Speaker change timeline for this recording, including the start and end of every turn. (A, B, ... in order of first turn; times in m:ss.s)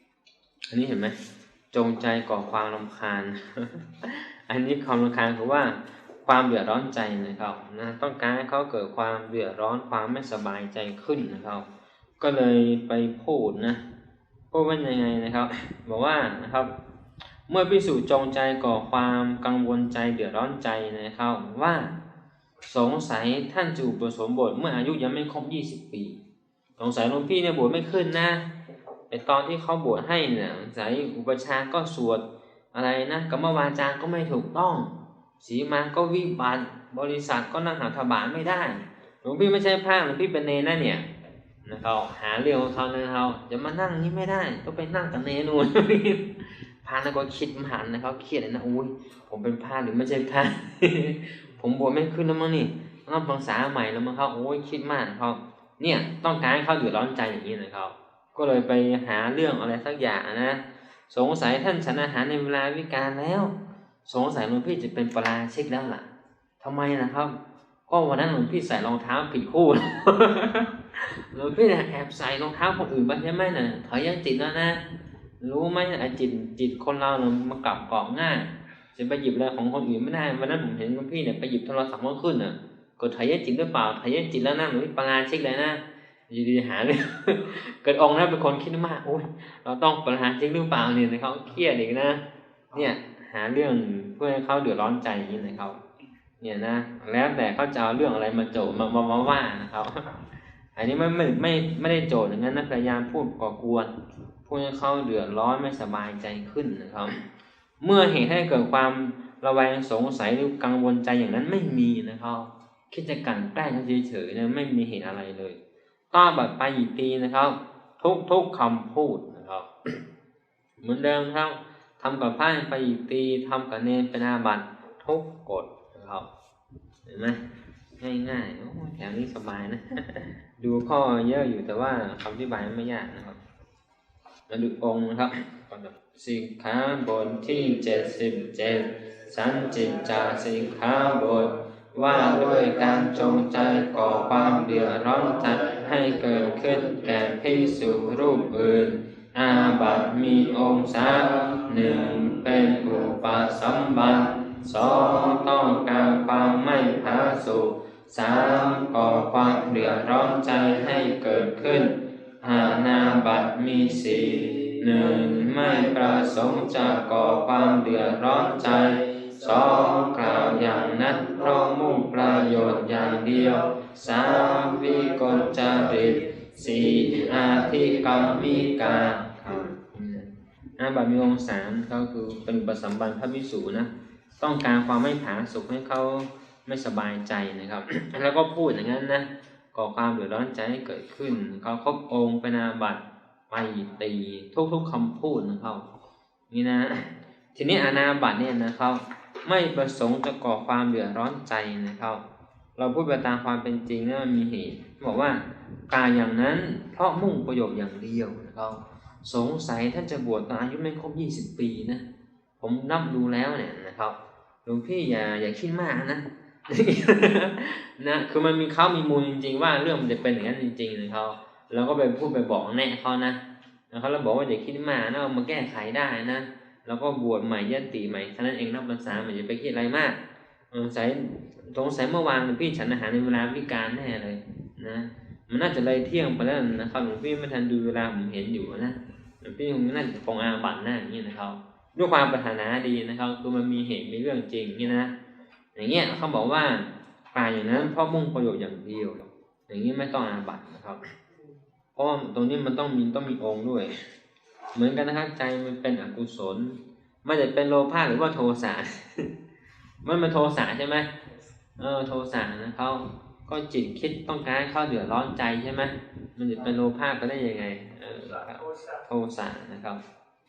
0:00.7-0:01.2 A
0:01.7-0:11.6 A
0:12.2-0:13.8 A
0:14.5-0:16.7 A
0:17.5-0:21.9 A
0:22.6-0:26.2 A
0:26.8-0:28.5 A
0:29.1-0:41.0 A
0:41.6-1:06.1 A
1:06.6-1:07.4 A
1:07.9-1:14.8 A
1:15.4-1:35.8 A
1:36.4-1:40.0 A
1:40.8-1:43.9 A
1:44.4-1:47.1 A
1:47.8-1:55.6 A
1:56.1-1:59.7 A
2:00.8-2:06.3 A
2:07.0-2:07.4 A
2:08.0-2:13.4 A
2:14.5-3:15.9 A
3:16.5-3:22.2 A
3:22.8-3:32.0 A
3:32.6-3:50.2 A
3:50.7-4:05.1 A
4:05.7-4:11.0 A
4:11.9-4:13.9 A
4:14.7-4:19.3 A
4:20.0-4:21.1 A
4:21.8-4:30.0 A